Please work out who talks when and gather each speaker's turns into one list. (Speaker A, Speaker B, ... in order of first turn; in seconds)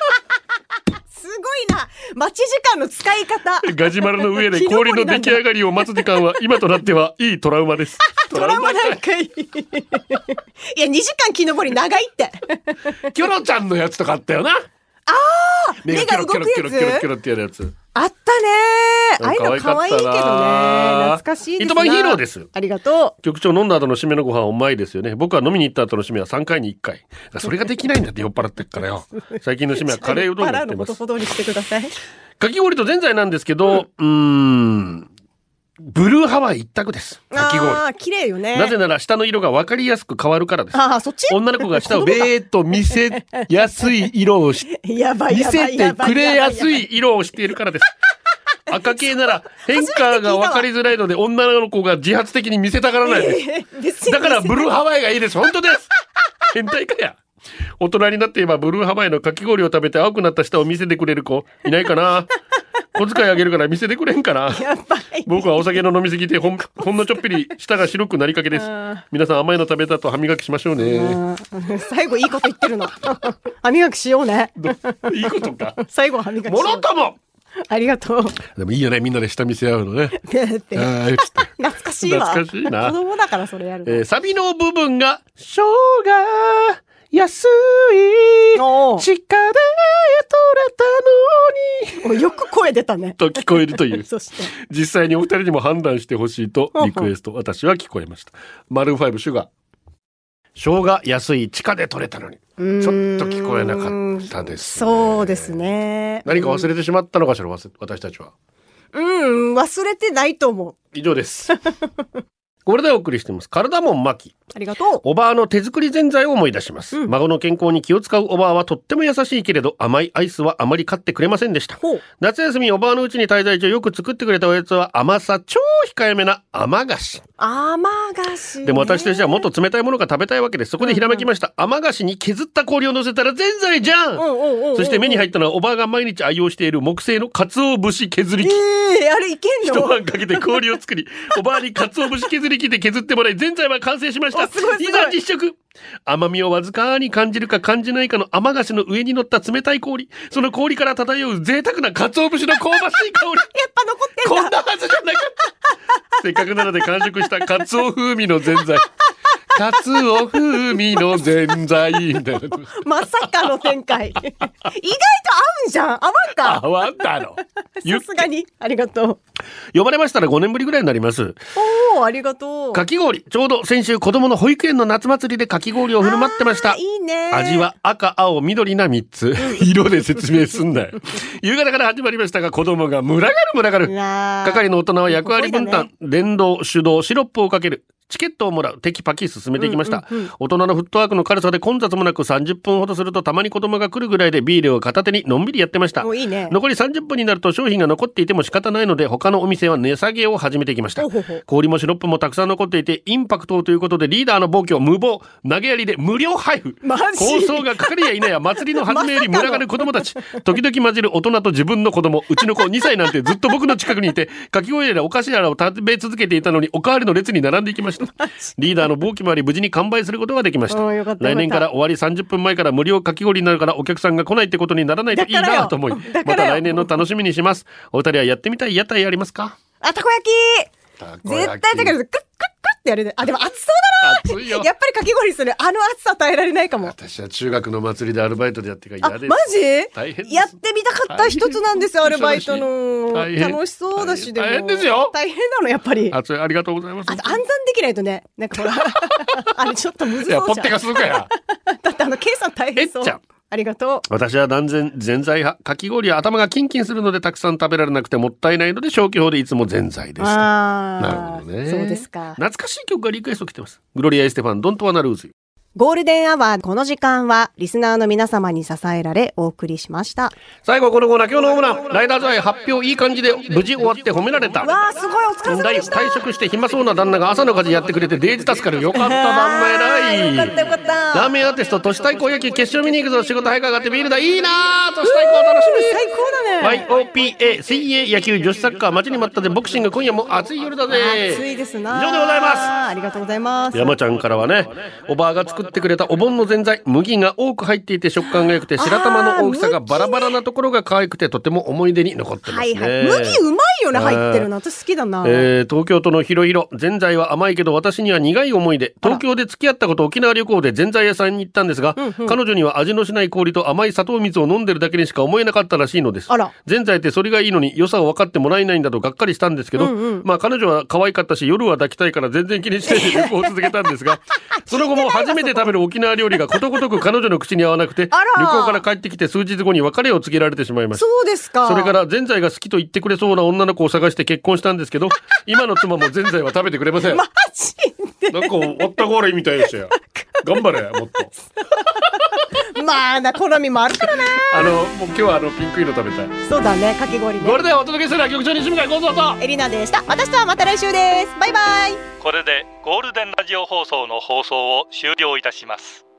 Speaker A: 1.1-6.2, 8.0-13.0, 15.1-17.1, 17.9-23.1, 29.1-31.9, 37.3-38.8, 40.7-42.3, 43.2-43.5, 44.7-46.8, 49.5-50.7, 53.0-54.7, 64.5-65.6, 68.5-69.0, 70.8-75.3, 75.8-76.8, 77.7-78.4, 80.1-84.0, 88.5-89.0, 92.0-94.5, 96.7-97.1, 102.6-106.7, 108.9-110.8, 114.5-115.0, 127.4-129.5, 130.8-131.2, 134.2-135.3, 138.4-140.5, 144.3-145.2, 153.5-154.5, 162.7-166.6, 167.8-169.2, 171.6-172.8, 176.0-177.7, 183.8-185.9, 189.6-190.3, 196.0-196.6, 201.0-201.4, 206.8-208.1, 208.8-210.4, 218.2-218.5, 220.7-221.7, 225.1-227.0, 229.8-230.7, 231.2-236.9, 239.0-246.2, 247.1-254.0, 260.2-262.4, 265.8-270.3, 274.6-276.1, 278.9-281.3, 285.0-286.8, 290.9-293.9, 298.8-300.4, 302.4-305.5, 312.0-312.4, 319.8-320.2, 322.9-323.6, 324.6-325.7, 328.1-328.8, 330.9-331.9, 337.1-338.9, 339.9-340.4, 341.3-344.7, 346.4-347.6, 349.4-352.0
Speaker B: 3.6-9.0, 13.0-14.6, 15.8-17.7, 19.2-22.5, 23.2-31.0, 32.4-35.1, 35.8-37.8, 38.5-44.8, 45.3-47.9, 48.7-53.4, 54.0-55.9, 56.5-57.2, 57.8-62.3, 62.9-64.6, 65.2-71.2, 74.6-75.8, 76.5-77.2, 78.5-80.2, 80.7-81.5, 82.0-83.0, 83.8-92.2, 93.2-99.5, 100.5-105.6, 106.2-108.3, 110.9-111.5, 112.6-114.3, 115.0-127.2, 128.6-138.6, 139.6-153.5, 154.2-155.4, 156.2-158.9, 159.5-163.6, 166.4-168.3, 169.7-171.4, 172.7-176.8, 177.3-229.6, 231.0-231.9, 234.0-234.7, 236.8-240.6, 241.1-245.1, 246.1-247.4, 248.6-249.6, 250.2-251.3, 252.8-253.2, 254.1-260.5, 261.0-265.3, 270.6-274.8, 275.4-280.5, 281.1-286.0, 286.6-292.7, 293.7-303.4, 303.9-304.5, 305.2-331.1, 331.6-337.2, 338.3-342.2, 344.1-346.4, 347.4-349.4
Speaker C: 352.2-356.0